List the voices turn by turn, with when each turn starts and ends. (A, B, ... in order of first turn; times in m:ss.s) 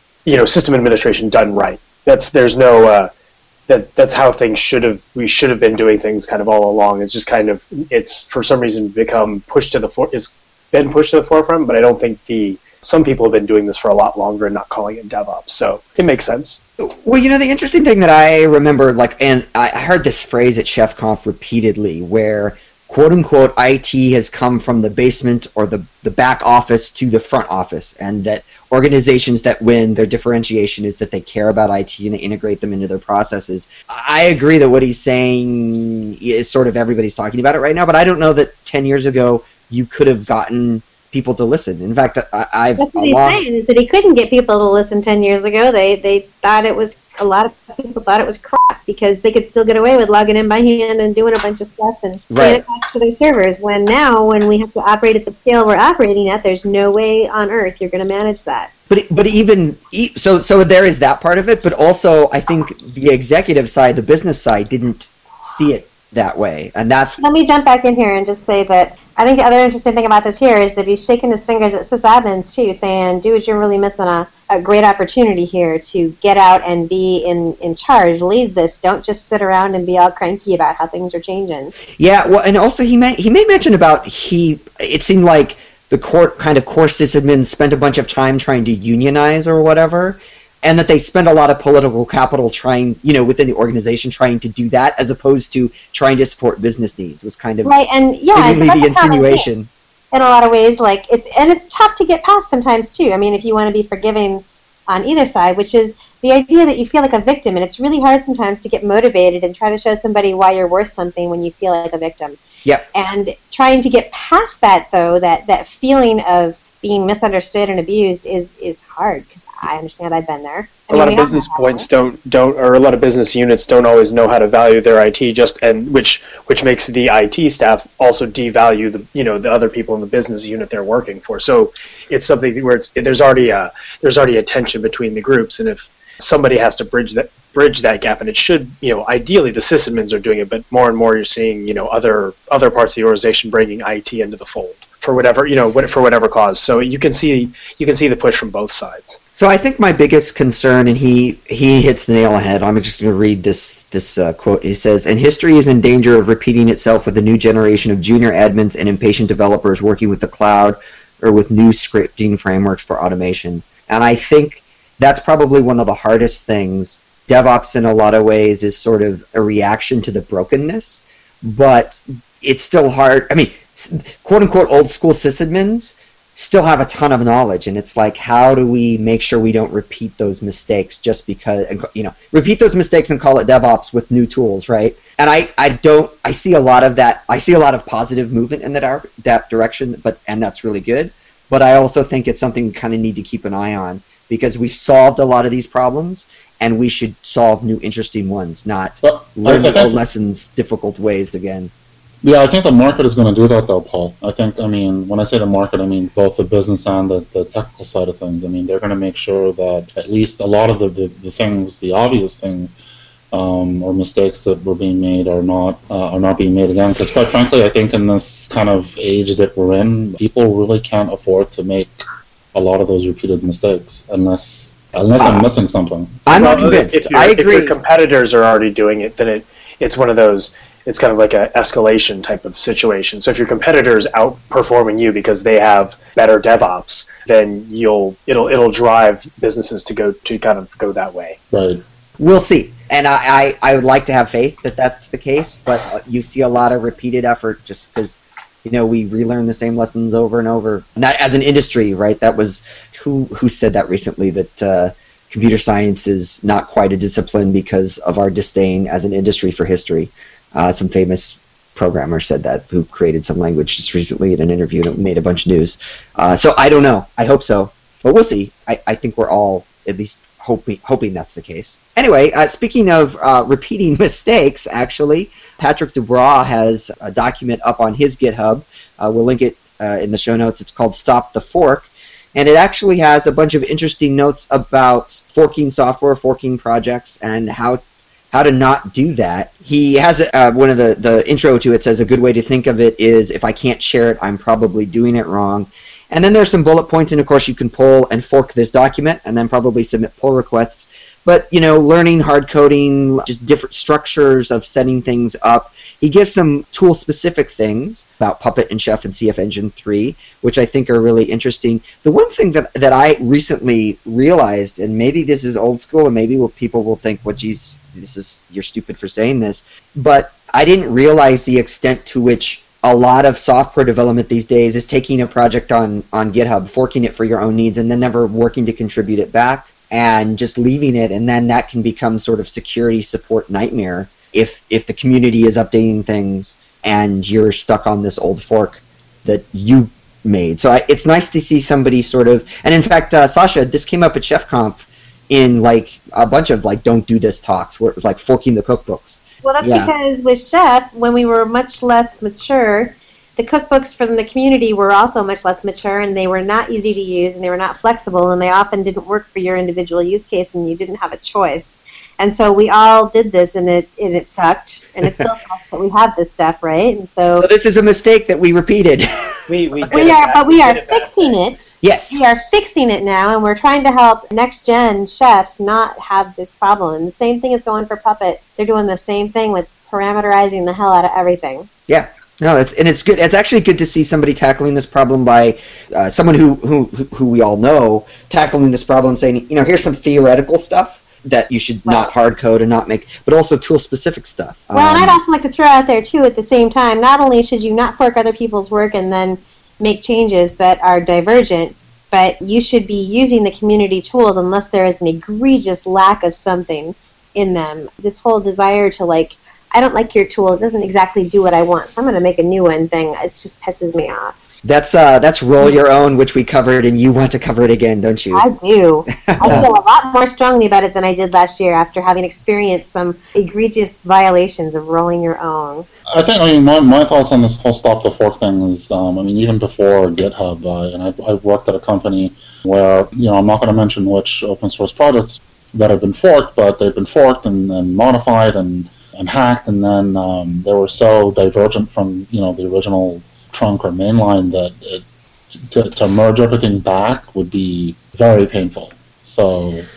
0:00.2-0:03.1 A
0:03.7-0:16.6 A
0:16.8-0:43.4 B
0:42.8-0:58.7 C
0:52.3-0:52.6 B
0:58.9-1:07.2 B
1:07.2-1:21.7 C
1:22.0-1:39.7 B
1:37.6-1:39.5 C
1:40.1-1:52.4 C
1:52.9-2:01.9 C
2:00.9-2:29.2 A
2:29.4-3:21.7 B
3:19.0-3:20.0 D
3:22.2-3:32.7 D
3:33.3-3:42.0 D
3:42.5-3:46.5 D
3:45.2-3:45.4 B
3:46.3-3:47.8 B
3:46.3-4:01.4 A
4:01.5-4:01.8 D
4:02.2-5:49.9 B
5:49.4-6:07.5 C
6:07.3-6:09.3 B
6:09.5-6:11.4 A
6:09.9-6:21.7 C
6:11.8-6:12.2 B
6:21.9-6:35.2 B
6:31.9-6:32.1 C
6:34.7-6:54.4 C
6:54.6-6:58.4 B
6:58.3-7:05.9 C
6:59.1-6:59.7 B
7:06.1-7:25.0 D
7:25.6-7:29.9 D